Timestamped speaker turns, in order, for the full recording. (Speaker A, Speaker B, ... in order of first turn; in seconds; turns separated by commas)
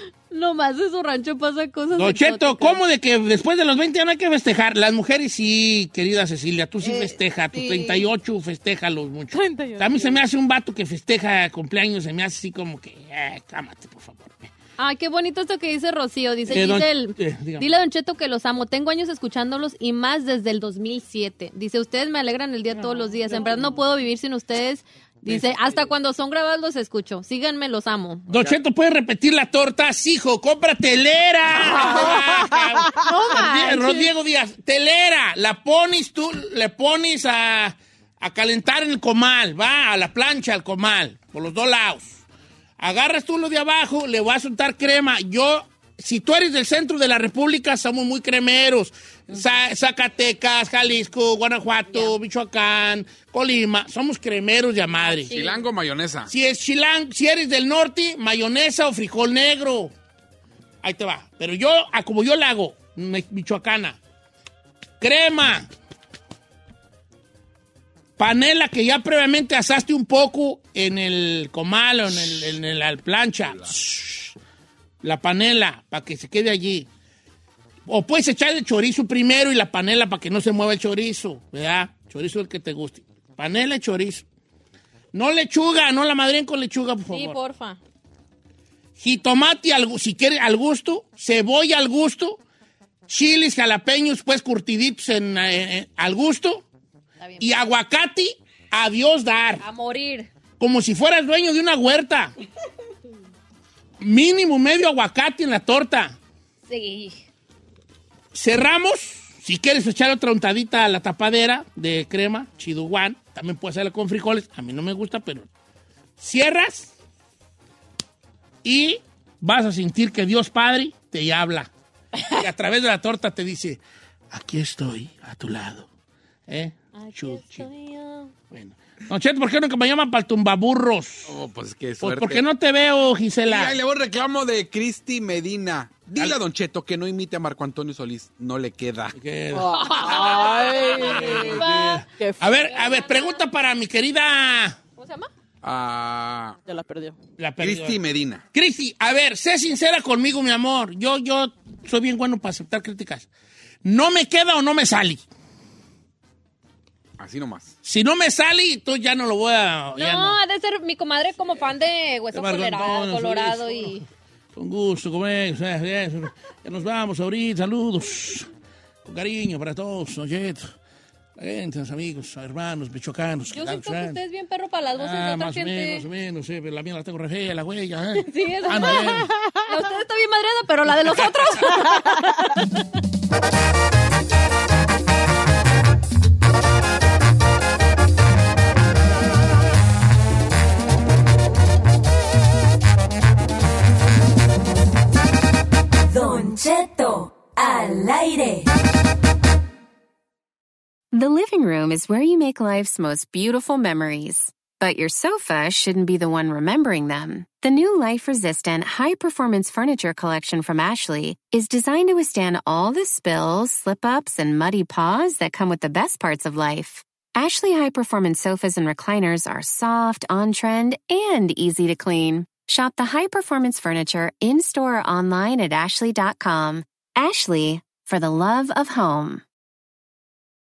Speaker A: 0.3-2.8, Speaker B: 1.9-14.5, Speaker A: 6.8-8.0, Speaker C: 9.3-10.2, Speaker A: 14.8-28.3, Speaker B: 16.5-17.7, Speaker B: 22.7-23.4, Speaker B: 25.2-25.8, Speaker D: 28.3-28.6, Speaker B: 28.3-42.2, Speaker C: 31.6-33.2, Speaker A: 31.7-32.1, Speaker A: 33.0-34.1, Speaker B: 42.8-55.4, Speaker A: 55.0-55.7, Speaker D: 55.3-56.3, Speaker B: 56.3-59.9, Speaker B: 60.8-64.0, Speaker B: 65.0-65.7, Speaker B: 68.2-74.4, Speaker D: 73.4-73.7, Speaker B: 75.0-76.9, Speaker B: 77.9-84.2, Speaker B: 85.1-87.4, Speaker A: 87.1-87.8, Speaker B: 89.0-92.4, Speaker B: 93.1-96.7, Speaker A: 97.2-97.5, Speaker B: 97.4-99.6, Speaker A: 99.6-100.3, Speaker B: 100.6-102.3, Speaker B: 104.0-106.2, Speaker A: 106.7-107.2, Speaker B: 108.3-115.5, Speaker B: 116.2-116.9, Speaker B: 118.6-121.7, Speaker B: 122.3-123.8, Speaker B: 124.3-125.9, Speaker B: 126.5-127.7, Speaker A: 126.9-128.3, Speaker B: 128.5-131.3, Speaker D: 131.3-132.4, Speaker B: 132.0-133.7, Speaker D: 133.4-139.2, Speaker B: 136.1-136.4, Speaker B: 139.1-144.8, Speaker C: 139.5-141.6, Speaker A: 139.8-143.4, Speaker C: 142.2-142.6, Speaker A: 145.0-145.3, Speaker D: 145.6-146.6, Speaker C: 146.7-147.2, Speaker B: 147.4-148.0, Speaker D: 147.6-148.4, Speaker B: 148.5-153.3, Speaker B: 153.8-155.2, Speaker D: 157.2-157.7, Speaker B: 157.8-160.4, Speaker A: 160.0-164.0, Speaker B: 162.3-164.0, Speaker B: 164.6-168.5, Speaker B: 169.1-170.7, Speaker B: 171.4-174.2, Speaker A: 173.5-176.1, Speaker B: 175.0-179.3, Speaker A: 178.2-182.6, Speaker C: 179.2-179.7, Speaker B: 180.9-181.7, Speaker E: 196.1-198.7, Speaker F: 201.1-229.4